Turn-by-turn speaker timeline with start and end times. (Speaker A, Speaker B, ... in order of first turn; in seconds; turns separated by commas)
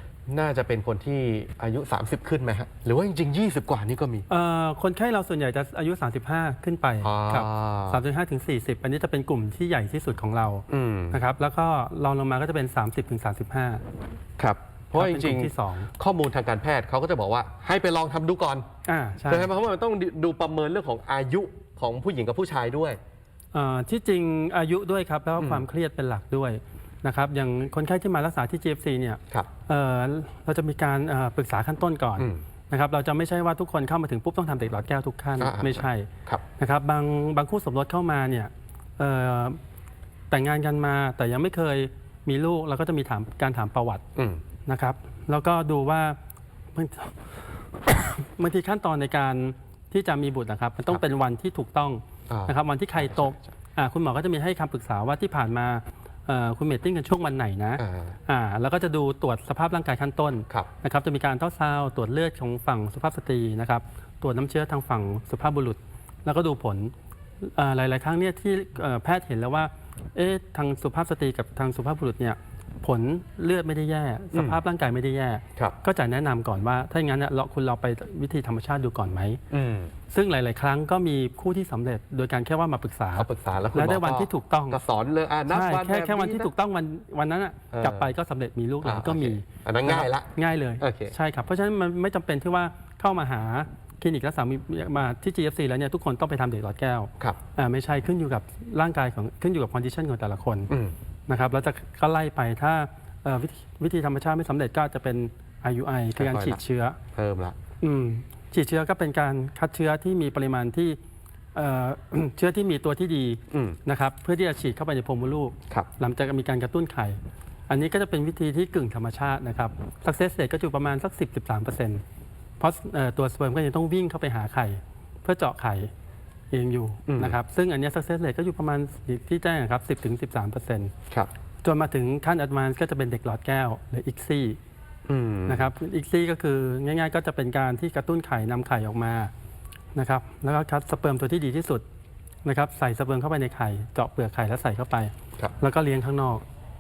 Speaker A: 0.3-4.3, Speaker B: 4.3-13.8, Speaker A: 7.0-8.0, Speaker A: 10.7-11.2, Speaker A: 14.4-18.7, Speaker B: 14.9-15.9, Speaker B: 18.9-19.5, Speaker A: 19.3-23.0, Speaker B: 23.5-39.6, Speaker A: 25.4-25.7, Speaker A: 32.2-32.4, Speaker A: 35.4-36.4, Speaker B: 40.3-44.0, Speaker A: 44.2-44.4, Speaker B: 44.7-46.2, Speaker B: 46.8-79.4, Speaker A: 52.3-53.4, Speaker A: 57.8-58.2, Speaker A: 79.5-79.9, Speaker B: 80.1-84.8, Speaker A: 83.2-86.5, Speaker B: 85.5-100.7, Speaker A: 87.7-88.1, Speaker A: 88.8-91.1, Speaker B: 101.3-107.0, Speaker A: 106.2-106.6, Speaker A: 107.2-107.6, Speaker B: 107.8-111.0, Speaker B: 111.5-122.0, Speaker A: 113.5-113.8, Speaker B: 122.6-125.9, Speaker B: 126.5-130.9, Speaker A: 127.1-127.4, Speaker B: 131.6-134.6, Speaker A: 135.1-135.7, Speaker B: 135.5-139.3, Speaker B: 139.9-141.8, Speaker B: 142.4-146.4